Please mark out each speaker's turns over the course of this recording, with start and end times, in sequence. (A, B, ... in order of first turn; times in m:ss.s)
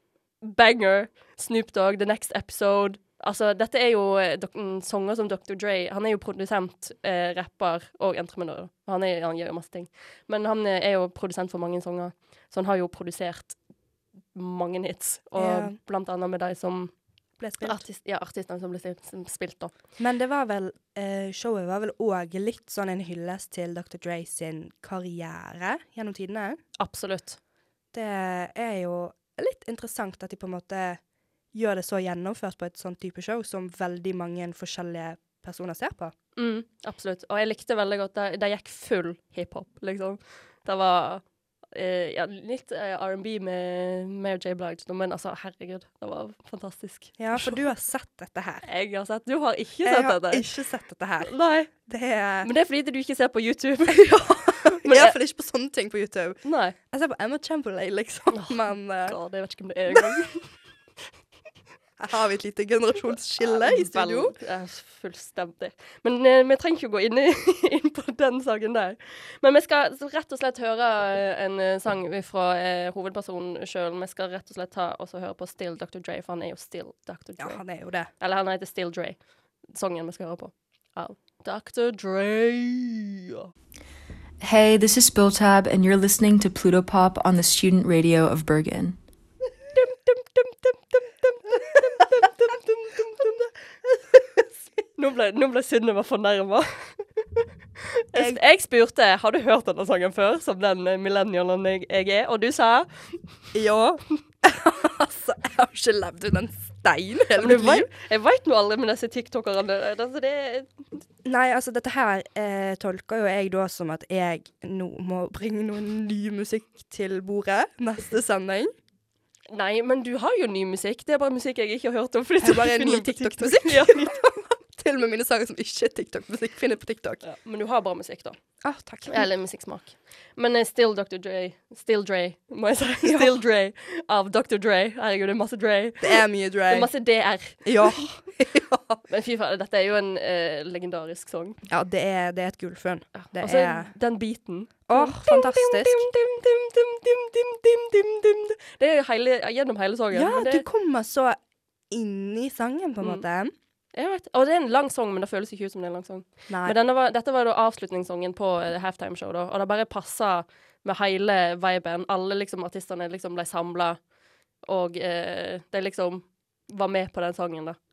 0:00.4-0:13.6 A
0:14.3-0:16.9 A
0:15.4-0:15.8 B
0:17.4-0:17.8 B
0:17.6-0:19.7 A
0:20.0-0:26.6 B
0:26.8-0:27.4 A
0:27.9-0:31.0 B
0:31.5-0:36.1 B
0:36.4-0:47.6 A
0:47.2-0:48.7 B
0:48.6-0:50.5 A
0:49.8-0:52.5 B
0:51.2-0:51.7 A
0:52.4-0:55.2 A
0:53.9-0:59.2 B
0:56.4-0:56.8 A
0:58.3-1:00.5 A
0:59.9-1:00.2 B
1:02.0-1:04.3 B
1:03.4-1:17.6 A
1:17.4-1:18.1 B
1:18.2-1:19.2 A
1:19.7-1:23.5 A
1:24.4-1:29.0 C
1:29.7-1:33.5 A
1:33.8-1:34.5 B
1:35.0-1:37.4 A
1:38.1-1:42.9 A
1:38.1-1:38.4 B
1:43.5-1:47.9 B
1:47.3-1:50.7 A
1:51.2-1:58.7 B
1:59.5-2:04.2 A
2:02.4-2:07.2 B
2:07.2-2:08.4 A
2:08.6-2:09.3 B
2:09.1-2:18.1 A
2:13.0-2:13.3 B
2:16.0-2:16.9 B
2:17.6-2:19.0 B
2:19.1-2:21.6 A
2:21.7-2:23.9 B
2:23.1-2:30.6 A
2:24.9-2:26.0 B
2:30.1-2:31.4 B
2:31.9-2:33.5 B
2:33.9-2:44.0 A
2:36.5-2:36.8 B
2:44.7-2:47.8 A